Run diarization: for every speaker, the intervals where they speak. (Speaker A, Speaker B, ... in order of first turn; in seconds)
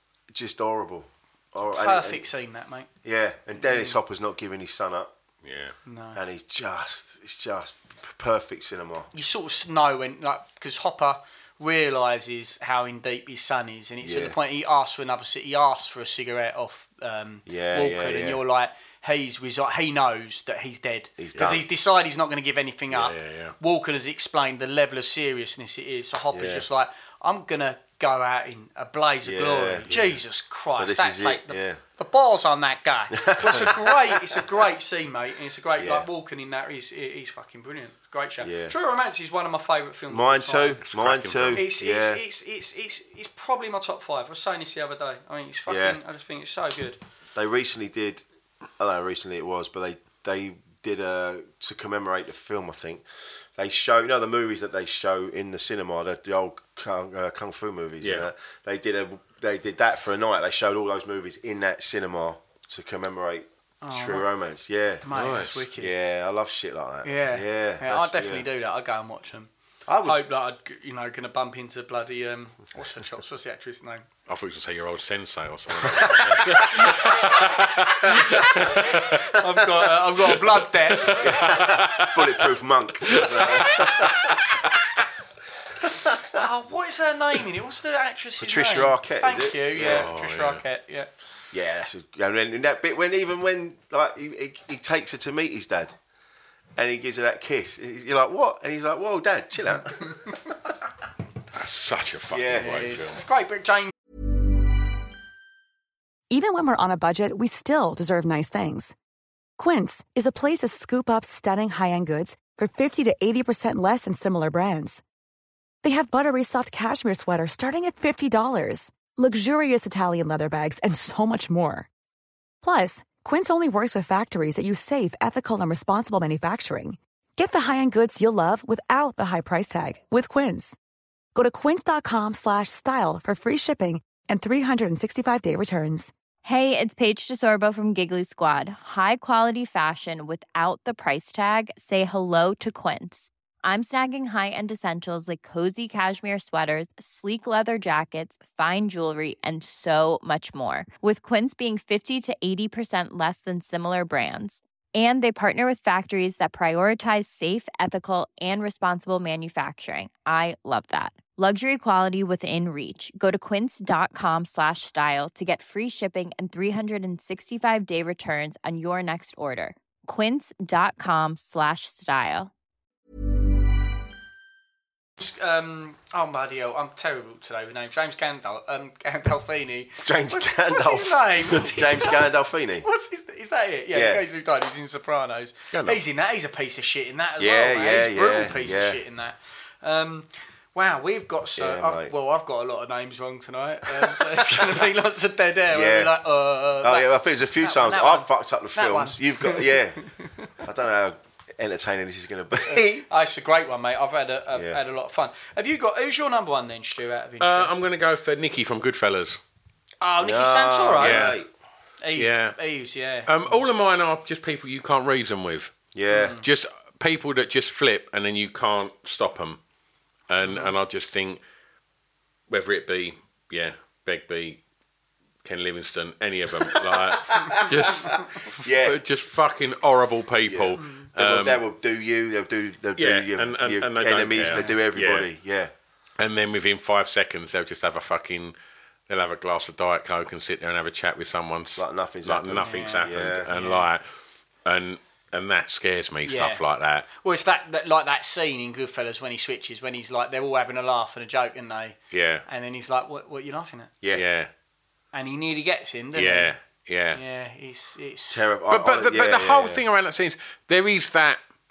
Speaker A: 0.3-2.3, 3.0-5.1, 6.1-9.1, 14.0-14.4, 17.5-18.4, 21.2-21.6, 26.3-26.6, 29.2-29.9, 30.7-31.8, 33.1-34.4, 35.8-36.1, 38.4-38.7, 40.1-42.2, 45.7-46.0, 47.3-48.2, 48.8-53.0, 53.6-65.0, 65.8-68.5, 69.9-70.2, 76.0-76.9, 81.2-84.4, 85.9-86.4, 88.4-90.1, 91.5-95.9, 96.8-100.3, 102.3-102.9, 180.0-182.9, 183.9-184.2, 187.4-189.0, 191.6-192.1, 194.0-194.2, 195.7-196.1, 196.8-200.1, 200.6-203.1, 204.5-204.8, 210.2-211.5, 215.9-216.3, 226.7-229.0, 230.4-235.7, 241.7-243.5, 258.3-259.8
Speaker B: 1.7-2.9, 3.6-4.0, 5.9-6.2, 9.1-40.8, 41.5-47.0, 63.8-64.3, 65.0-65.9, 67.0-69.5, 70.0-74.0, 78.0-81.4, 86.2-91.1, 102.6-103.9, 175.2-182.2, 182.8-200.5, 202.6-207.8, 210.0-211.3, 212.0-213.6, 216.1-216.4, 220.4-220.7, 230.8-231.1, 234.5-234.8, 242.6-243.9, 246.3-246.6, 247.1-251.9, 252.5-253.9, 255.1-256.5, 257.1-258.4
Speaker C: 5.4-5.7, 22.9-23.6, 40.9-41.6, 58.0-58.3, 65.1-65.6, 74.3-79.3, 80.2-82.4, 83.0-84.5, 89.8-90.6, 101.5-103.2, 185.7-186.0, 207.4-209.4, 211.0-211.4, 212.1-212.6, 213.3-215.8, 216.4-219.6, 220.3-221.4, 222.5-224.6, 225.4-231.6, 232.9-235.3, 236.2-238.6, 239.1-244.0, 244.6-247.1, 252.1-252.4, 254.1-254.5, 256.1-257.2, 258.7-261.4
Speaker D: 106.3-109.0, 109.6-115.0, 115.8-121.9, 122.6-130.8, 131.3-136.1
Speaker E: 136.4-172.5